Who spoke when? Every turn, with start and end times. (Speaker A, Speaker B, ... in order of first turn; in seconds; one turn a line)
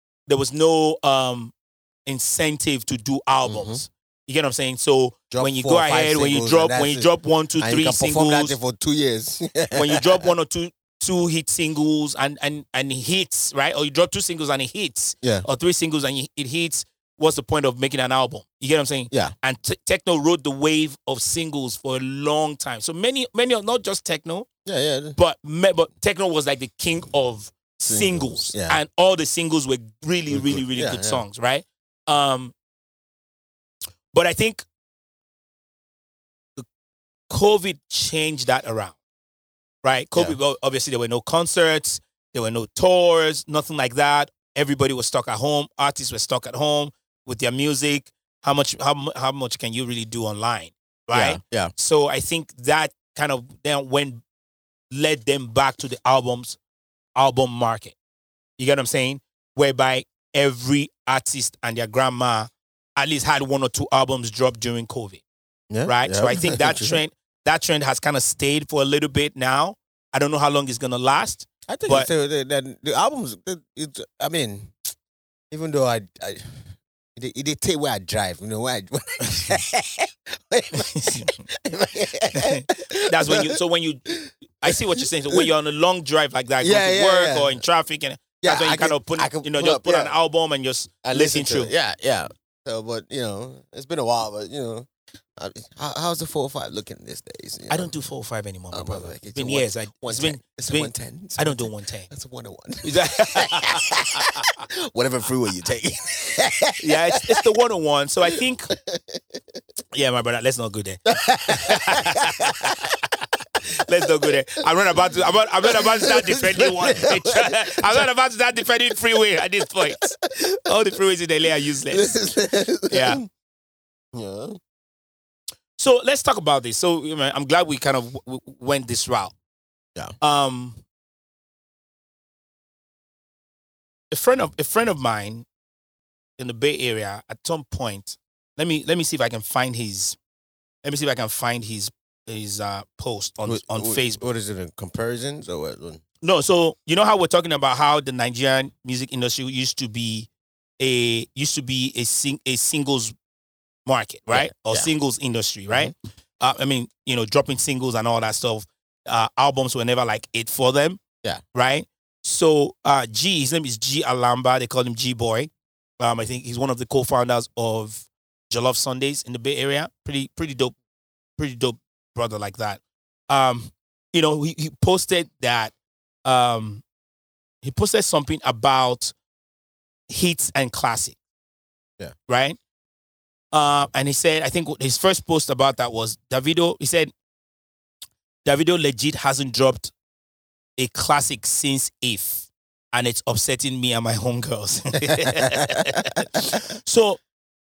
Speaker A: 0.3-1.5
Speaker A: 2.0-8.5
Speaker B: 3.4-3.8
Speaker B: 5.3-10.2
Speaker A: 9.7-24.5
Speaker B: 24.6-25.2
Speaker A: 25.2-32.5
Speaker B: 27.8-28.8
Speaker B: 30.3-31.2
Speaker A: 34.1-34.6
Speaker A: 37.3-39.0
Speaker A: 39.8-54.2
Speaker B: 51.1-51.7
Speaker A: 54.9-56.6
Speaker A: 57.1-57.9
Speaker A: 58.6-65.2
Speaker B: 65.7-67.0
Speaker A: 65.8-72.1
Speaker B: 71.7-74.9
Speaker B: 75.5-85.5
Speaker A: 80.8-81.4
Speaker A: 82.3-84.1
Speaker A: 84.6-91.7
Speaker B: 86.6-87.6
Speaker B: 88.4-90.1
Speaker B: 91.0-97.9
Speaker A: 97.7-102.1
Speaker B: 98.7-107.4
Speaker A: 102.8-104.5
Speaker A: 106.8-108.7
Speaker B: 108.7-109.3
Speaker A: 109.9-112.7
Speaker B: 111.0-112.8
Speaker A: 113.6-122.2
Speaker B: 115.6-118.1
Speaker B: 119.8-120.7
Speaker B: 121.9-123.3
Speaker A: 122.9-123.2
Speaker B: 124.1-124.6
Speaker A: 125.8-129.3
Speaker A: 130.2-130.8
Speaker A: 134.1-135.4
Speaker A: 136.4-140.2
Speaker A: 140.8-144.2
Speaker B: 143.4-146.0
Speaker A: 146.2-153.1
Speaker A: 153.8-161.0
Speaker B: 154.3-154.9
Speaker A: 161.5-170.7
Speaker A: 171.4-175.7
Speaker A: 176.2-176.8
Speaker A: 177.6-179.1
Speaker A: 180.1-181.2
Speaker A: 182.3-182.6
Speaker A: 183.5-187.1
Speaker A: 188.4-189.9
Speaker A: 190.8-197.2
Speaker B: 195.1-196.6